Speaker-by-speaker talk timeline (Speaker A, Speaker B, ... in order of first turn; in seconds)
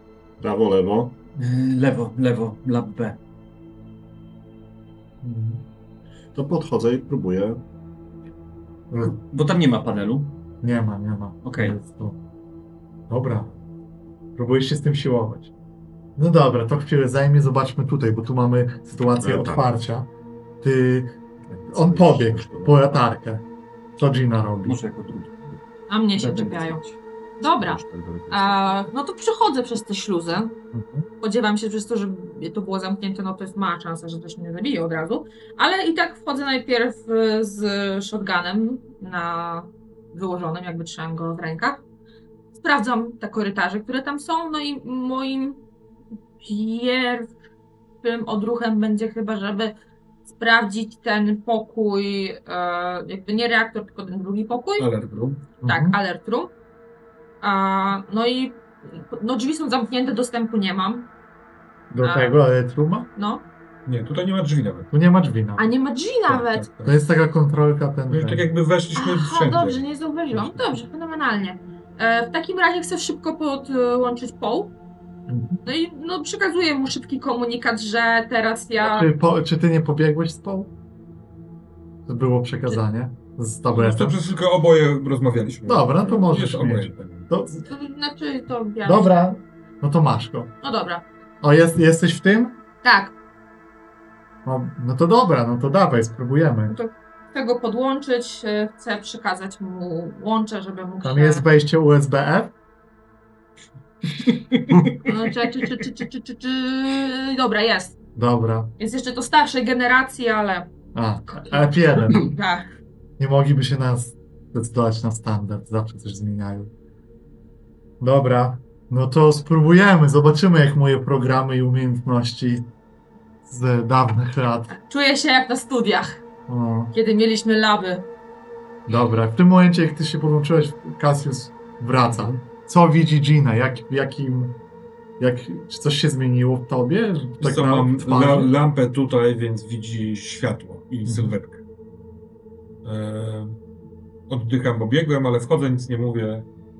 Speaker A: 0.4-1.1, 6.3-7.6, 19.2-19.6, 21.5-22.7, 27.5-28.7
Speaker B: 1.4-3.2, 9.0-10.3, 11.4-11.8, 24.6-25.5, 26.1-26.9
Speaker C: 5.2-5.6, 10.6-12.2, 13.1-13.5, 14.3-15.5, 16.1-20.1, 20.6-23.4, 24.0-24.8, 30.7-31.1, 55.6-56.0, 61.9-63.1, 64.9-65.7, 66.8-68.5, 75.3-75.6, 78.8-80.7, 82.0-84.2, 85.7-87.7, 88.8-90.5, 91.4-92.6, 94.4-96.8, 101.0-102.5, 108.2-108.7, 110.9-112.3, 113.2-116.7, 118.0-122.7, 123.5-124.7, 126.5-126.9, 128.9-134.6, 135.2-138.5, 141.1-141.3
Speaker D: 25.9-26.8, 27.4-30.5, 31.2-41.8, 42.5-45.6, 46.4-47.3, 48.0-49.8, 50.3-54.9, 55.6-56.5, 57.4-61.1, 62.0-62.4, 63.1-63.4, 65.5-66.7, 68.9-74.7, 75.6-79.1, 87.7-89.1, 90.6-91.0, 92.8-93.1, 96.7-101.4, 105.0-108.0, 108.8-110.7, 111.3-112.6, 124.7-126.2, 126.9-128.1
Speaker E: 54.8-55.5, 63.9-64.9, 66.3-66.9, 68.1-70.6, 83.7-87.3, 137.4-141.6, 142.8-143.6, 144.3-146.5